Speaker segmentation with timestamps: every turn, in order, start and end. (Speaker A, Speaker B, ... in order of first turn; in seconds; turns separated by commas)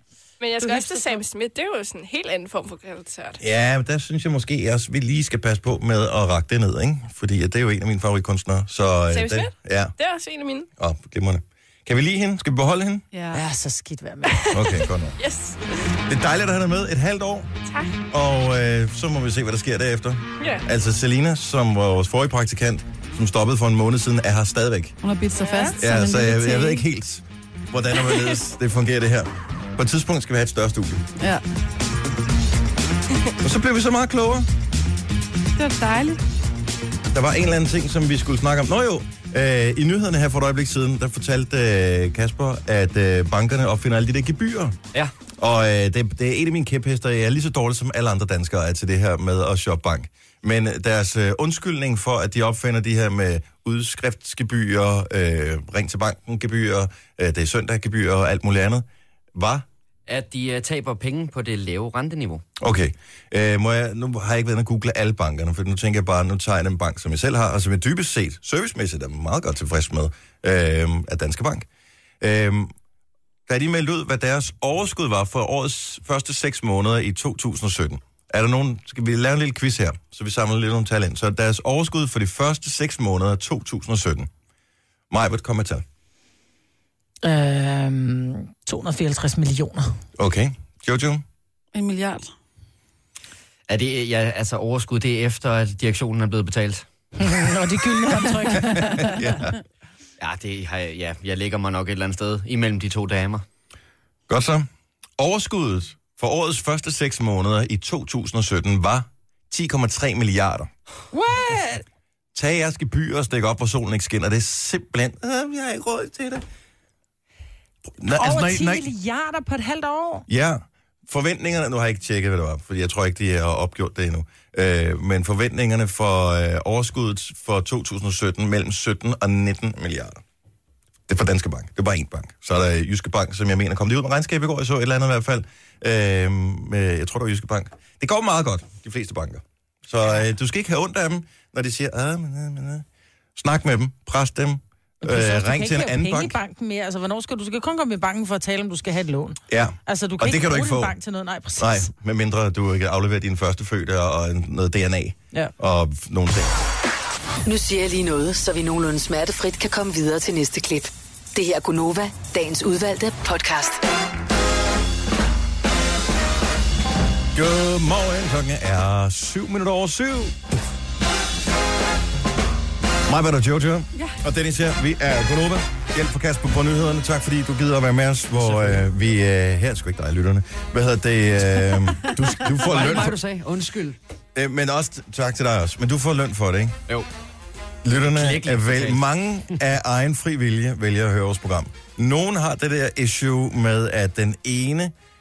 Speaker A: 0.4-3.4, Speaker B: 0.7-1.0, Speaker C: 3.4-9.9, Speaker A: 9.1-10.7, Speaker C: 10.8-13.0, Speaker B: 13.1-13.4, Speaker D: 13.3-14.5, Speaker C: 14.5-15.2, Speaker A: 15.2-15.9, Speaker C: 16.1-17.5, Speaker A: 17.6-18.0, Speaker C: 18.1-24.9, Speaker A: 20.4-20.6, Speaker B: 25.0-26.8, Speaker A: 25.4-25.7, Speaker C: 25.8-31.0, Speaker A: 28.0-28.4, Speaker C: 33.4-34.5, Speaker B: 35.5-36.2, Speaker C: 37.1-44.8, Speaker C: 45.4-59.6, Speaker E: 60.1-62.4, Speaker C: 62.6-71.7, Speaker C: 72.2-72.7, Speaker C: 73.5-84.3, Speaker C: 85.1-85.8, Speaker D: 87.2-90.0, Speaker C: 90.2-91.2, Speaker B: 91.7-92.3, Speaker E: 93.7-96.8, Speaker D: 97.2-99.3, Speaker C: 98.5-99.6, Speaker E: 100.2-103.4, Speaker C: 104.3-110.7, Speaker D: 111.1-111.8, Speaker C: 112.3-116.4, Speaker C: 117.8-118.9, Speaker D: 118.1-120.2, Speaker C: 120.3-130.2, Speaker C: 131.1-142.8, Speaker C: 143.3-146.4, Speaker D: 145.0-151.9, Speaker C: 149.5-150.9, Speaker C: 151.6-156.5, Speaker F: 157.4-163.8, Speaker C: 167.3-170.4, Speaker C: 173.1-183.2, Speaker E: 178.4-178.8, Speaker E: 182.6-184.0, Speaker C: 184.3-186.8, Speaker C: 187.8-194.9, Speaker E: 188.1-189.6